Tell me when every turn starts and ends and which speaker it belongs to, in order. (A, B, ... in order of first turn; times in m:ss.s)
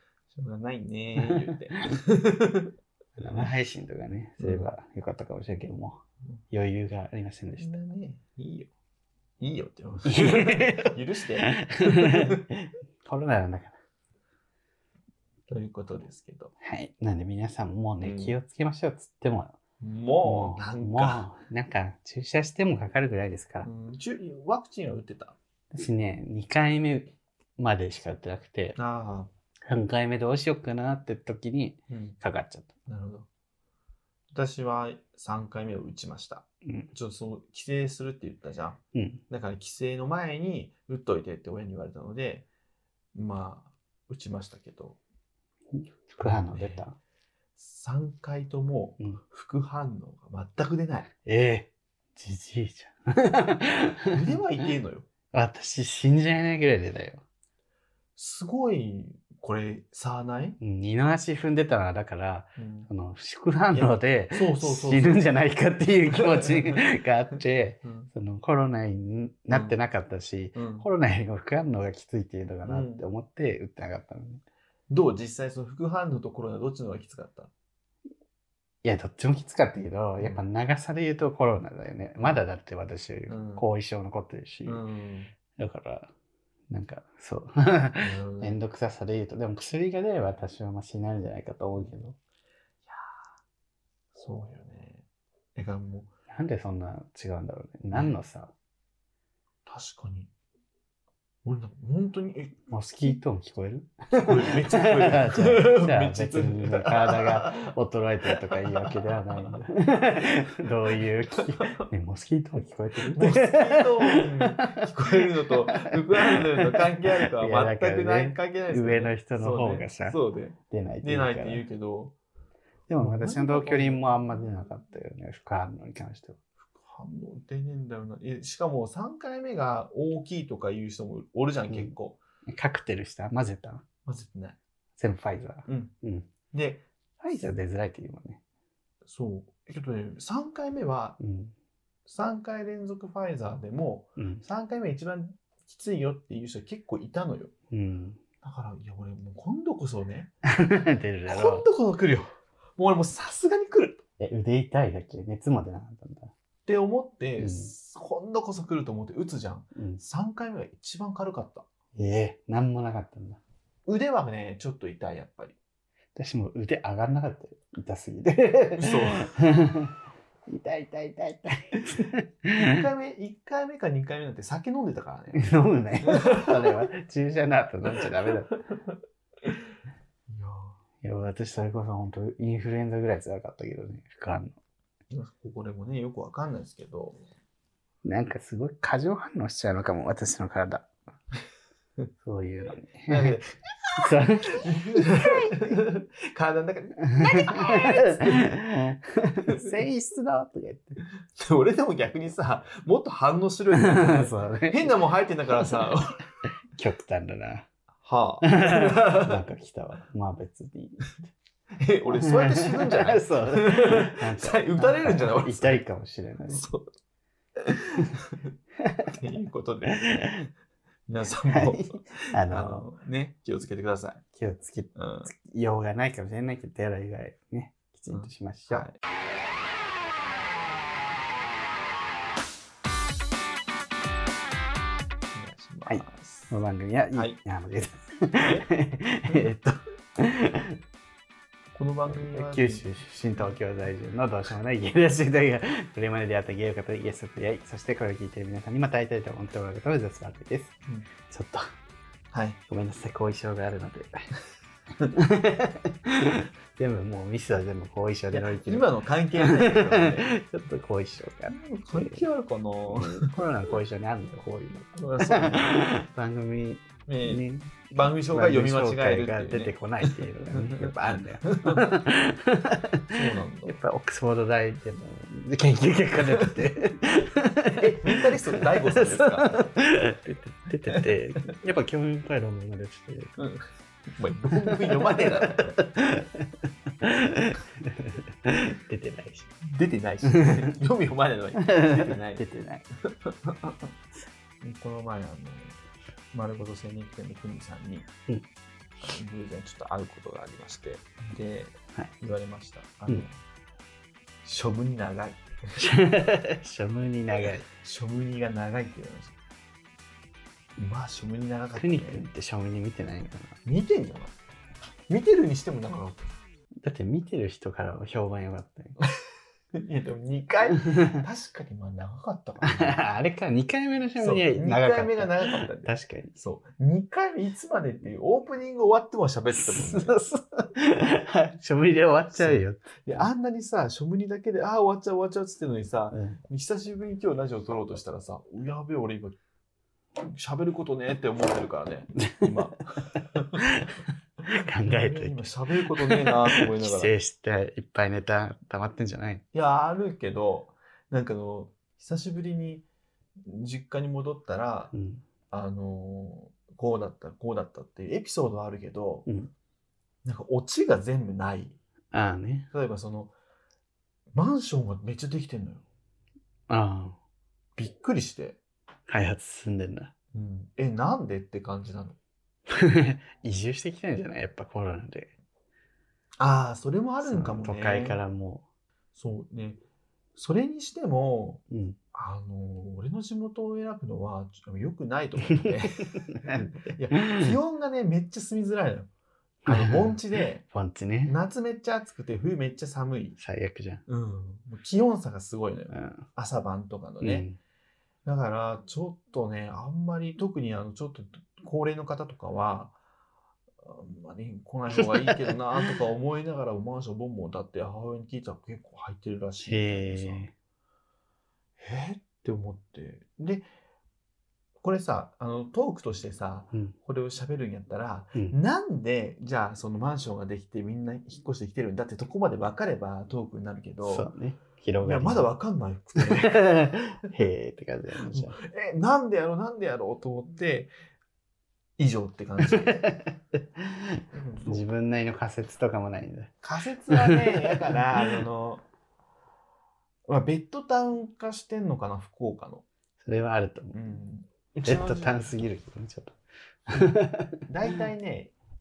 0:00.3-0:03.5 A
0:01.2-0:02.0 B
0:03.2-0:07.8 B
0:04.4-0:04.7 A
0:07.6-0:08.7 A
0:09.4-0:12.4 A
0:10.0-0:13.8 B
0:15.5-0:16.5 A
0:16.6-0:19.6 B
0:18.0-0:18.4 A
0:19.8-0:21.3 A
0:20.2-0:23.7 B
0:23.6-0:25.4 A
0:25.7-0:28.8 B
0:28.8-0:29.3 A
0:29.7-0:32.7 B
0:31.9-0:32.2 A
0:32.9-0:33.3 A
0:34.3-0:42.4 A
0:38.9-0:39.2 B
0:43.1-0:45.0 A
0:45.7-0:47.0 B
0:46.2-0:46.8 A
0:47.6-0:51.1 A
0:51.2-0:54.2 B
0:54.1-0:55.1 A
0:55.3-0:57.2 B
0:58.2-1:00.6 A
1:00.6-1:14.4 B
1:02.6-1:02.9 A
1:03.7-1:05.2 A
1:06.1-1:06.8 A
1:09.5-1:09.8 A
1:10.6-1:10.9 A
1:12.6-1:13.0 A
1:14.9-1:17.5 A
1:18.8-1:24.8 B
1:23.3-1:23.6 A
1:24.7-1:25.3 A
1:25.6-1:26.1 B
1:26.7-1:32.2 B
1:28.0-1:28.6 A
1:34.1-1:36.1 A
1:36.3-1:38.5 B
1:39.7-1:40.3 A
1:41.4-1:43.1 A
1:42.7-2:00.2 B
1:44.2-1:47.7 A
1:48.3-1:49.6 A
1:50.6-1:51.9 A
1:53.1-2:02.2 A
2:00.7-2:01.7 B
2:02.9-2:06.4 B
2:03.0-2:04.5 A
2:06.6-2:12.2 A
2:11.7-2:11.9 B
2:12.5-2:13.8 B
2:14.1-2:14.6 A
2:15.0-2:16.3 B
2:15.7-2:15.9 A
2:16.5-2:16.8 A
2:17.2-2:18.4 B
2:19.0-2:21.2 A
2:21.2-2:21.5 B
2:22.1-2:27.5 A
2:24.2-2:24.4 B
2:27.7-2:28.2 B
2:28.4-2:30.3 A
2:30.4-2:31.6 B
2:31.3-2:34.0 A
2:34.2-2:36.3 B
2:36.7-2:41.7 A
2:37.4-2:37.7 B
2:39.8-2:40.0 B
2:42.0-2:43.4 B
2:43.9-2:45.6 A
2:46.2-2:49.9 B
2:48.8-2:49.3 A
2:50.5-2:52.8 B
2:52.6-2:55.4 A
2:55.4-2:58.6 B
2:56.0-2:56.9 A
2:57.9-2:58.6 A
3:00.3-3:00.8 A
3:01.0-3:04.6 B
3:05.1-3:07.2 A
3:08.0-3:10.9 B
3:12.2-3:13.4 B
3:13.1-3:18.4 A
3:14.0-3:15.6 B
3:17.1-3:21.0 B
3:21.3-3:26.2 A
3:23.8-3:25.0 B
3:26.8-3:27.7 B
3:28.0-3:29.4 A
3:28.4-3:31.3 B
3:31.8-3:35.8 A
3:32.2-3:36.6 B
3:36.5-3:36.9 A
3:37.6-3:38.5 A
3:38.8-3:39.1 B
3:39.1-3:40.2 A
3:39.9-3:40.5 B
3:41.1-3:44.2 A
3:41.5-3:42.9 B
3:44.3-3:48.9 B
3:45.0-3:45.3 A
3:48.1-3:49.0 A
3:55.3-3:56.5 A
3:55.9-4:00.8 B
3:58.4-3:58.6 A
4:01.7-4:02.8 A
4:02.1-4:10.8 B
4:11.3-4:11.6 B
4:12.3-4:12.6 A
4:12.7-4:14.1 B
4:15.1-4:18.9 B
4:18.3-4:20.3 A
4:19.4-4:22.2 B
4:21.5-4:23.3 A
4:22.9-4:33.1 B
4:24.9-4:25.8 A
4:27.1-4:31.9 A
4:33.1-4:33.8 A
4:33.6-4:43.4 B
4:37.8-4:39.6 A
4:43.4-4:45.8 A
4:44.5-4:49.5 B
4:49.6-4:52.4 A
4:50.3-4:50.7 B
4:51.6-4:52.8 B
4:53.1-4:53.9 A
4:54.6-4:55.8 A
4:56.3-4:58.1 A
4:59.0-5:03.4 A
5:04.4-5:05.8 A
5:05.8-5:07.6 B
5:07.4-5:09.4 A
5:10.8-5:12.3 A
5:11.8-5:13.6 B
5:13.6-5:14.3 A
5:15.1-5:16.3 A
5:16.8-5:19.0 B
5:19.7-5:23.0 A
5:20.9-5:21.1 B
5:22.6-5:26.3 B
5:24.2-5:30.2 A
5:29.5-5:33.3 B
5:32.3-5:39.4 A
5:36.1-5:36.4 B
5:40.2-5:43.6 A
5:42.2-5:42.5 B
5:43.6-5:45.5 B
5:44.8-5:47.1 A
5:46.0-5:49.4 B
5:49.5-5:52.8 A
5:53.4-5:54.9 A
5:54.9-5:55.2 B
5:55.5-5:59.3 A
6:00.2-6:01.8 A
6:02.1-6:02.7 B
6:02.7-6:03.3 A
6:04.3-6:05.8 A
6:06.7-6:07.2 B
6:07.8-6:08.6 A
6:09.1-6:10.1 B
6:10.3-6:12.2 A
6:12.7-6:15.3 B
6:16.4-6:18.2 A
6:17.2-6:18.6 B
6:19.1-6:19.8 A
6:20.4-6:21.6 A
6:21.7-6:22.0 B
6:22.1-6:29.1 A
6:25.5-6:27.6 B
6:29.6-6:31.4 B
6:29.7-6:30.6 A
6:31.2-6:33.4 A
6:33.4-6:34.0 B
6:34.1-6:37.5 A
6:35.9-6:36.2 B
6:37.2-6:37.6 B
6:38.2-6:43.0 A
6:43.8-6:50.5 A
6:45.0-6:45.4 B
6:49.6-6:50.5 B
6:51.8-6:53.7 A
6:54.8-7:04.3 A
7:04.0-7:05.5 B
7:05.0-7:06.6 A
7:06.2-7:08.6 B
7:08.2-7:10.9 A
7:12.0-7:13.1 A
7:12.6-7:16.5 B
7:14.3-7:14.8 A
7:16.6-7:18.8 A
7:17.1-7:17.9 B
7:20.3-7:22.8 A
7:23.2-7:24.0 B
7:23.9-7:25.6 A
7:24.8-7:26.4 B
7:26.9-7:27.6 B
7:27.7-7:28.5 A